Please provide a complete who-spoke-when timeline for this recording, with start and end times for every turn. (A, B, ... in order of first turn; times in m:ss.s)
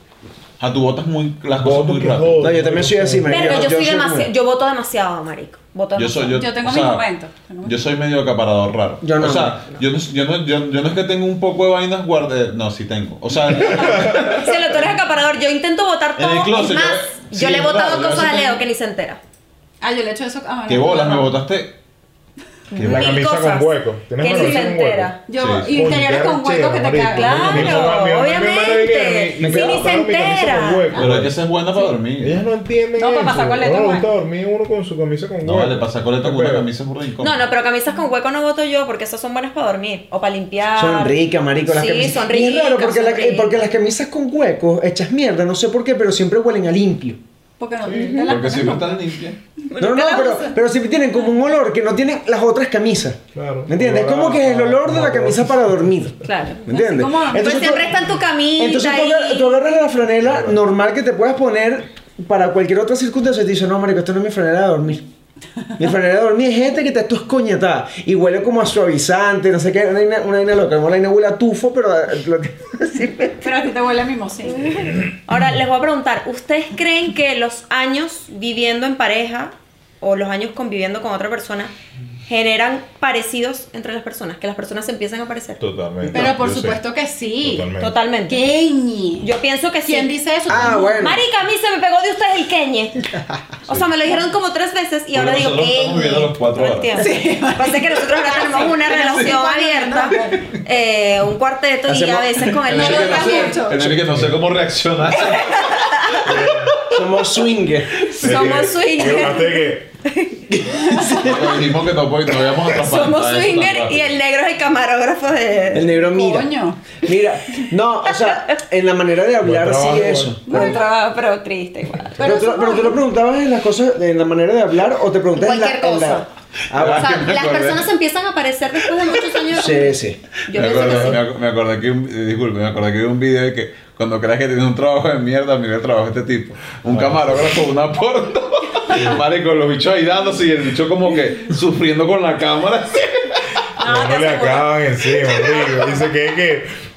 0:00.6-0:02.5 A
0:01.6-0:03.5 B
0:02.4-0:04.3 C
0:03.3-0:06.4 D
0:06.0-0:07.1 A
0:06.2-0:07.8 E
0:07.6-0:14.6 A
0:09.0-0:09.6 C
0:13.8-0:14.2 B
0:14.2-0:19.2 D
0:16.2-0:18.6 A
0:19.8-0:21.3 E
0:20.7-0:21.8 A
0:22.7-0:25.2 D
0:22.7-0:23.2 A
0:22.8-0:25.2 B
0:24.2-0:24.7 E
0:25.2-0:27.9 E
0:25.4-0:26.0 A
0:25.7-0:31.3 B
0:27.1-0:30.9 D
0:29.4-0:29.9 C
0:30.9-0:32.4 A
0:32.2-0:36.7 B
0:33.0-0:34.0 E
0:35.4-0:37.4 A
0:37.2-0:43.6 D
0:40.8-0:47.2 C
0:47.6-0:49.2 E
0:47.8-0:48.4 D
0:48.3-0:49.4 A
0:49.7-0:50.4 D
0:49.8-0:58.0 C
0:49.9-0:50.5 E
0:53.3-0:56.1 B
0:56.2-0:59.6 D
0:56.7-0:57.8 E
0:58.6-1:05.1 C
1:00.2-1:00.6 B
1:05.8-1:13.1 C
1:12.9-1:13.5 D
1:13.4-1:14.9 E
1:14.5-1:21.7 D
1:22.3-1:25.6 D
1:25.6-1:26.8 B
1:26.1-1:27.6 E
1:27.4-1:27.9 B
1:27.8-1:28.4 D
1:28.3-1:29.3 E
1:29.2-1:33.1 D
1:29.8-1:31.1 E
1:30.5-1:31.2 C
1:33.6-1:43.6 D
1:35.1-1:37.1 A
1:37.0-1:40.5 E
1:41.9-1:42.6 C
1:42.6-1:47.0 A
1:42.7-1:43.8 E
1:43.6-1:43.9 C
1:43.9-1:44.4 B
1:45.2-1:46.3 D
1:46.2-1:46.7 B
1:46.9-1:48.1 C
1:48.0-1:48.4 A
1:48.2-1:50.6 D
1:48.2-1:49.9 B
1:50.5-1:51.6 C
1:51.2-1:54.1 A
1:52.7-1:55.9 D
1:55.7-2:00.8 C
1:56.1-1:56.9 E
1:58.1-1:58.5 D
1:59.4-2:00.4 B
2:00.5-2:00.8 E
2:00.5-2:02.6 D
2:02.2-2:02.9 E
2:02.2-2:07.3 C
2:05.3-2:06.3 D
2:06.7-2:07.9 A
2:06.8-2:11.2 D
2:09.5-2:10.2 C
2:10.5-2:23.5 A
2:10.6-2:11.2 B
2:16.9-2:17.6 B
2:18.9-2:19.2 B
2:23.8-2:24.6 E
2:23.8-2:26.8 B
2:24.0-2:24.6 D
2:25.5-2:25.8 E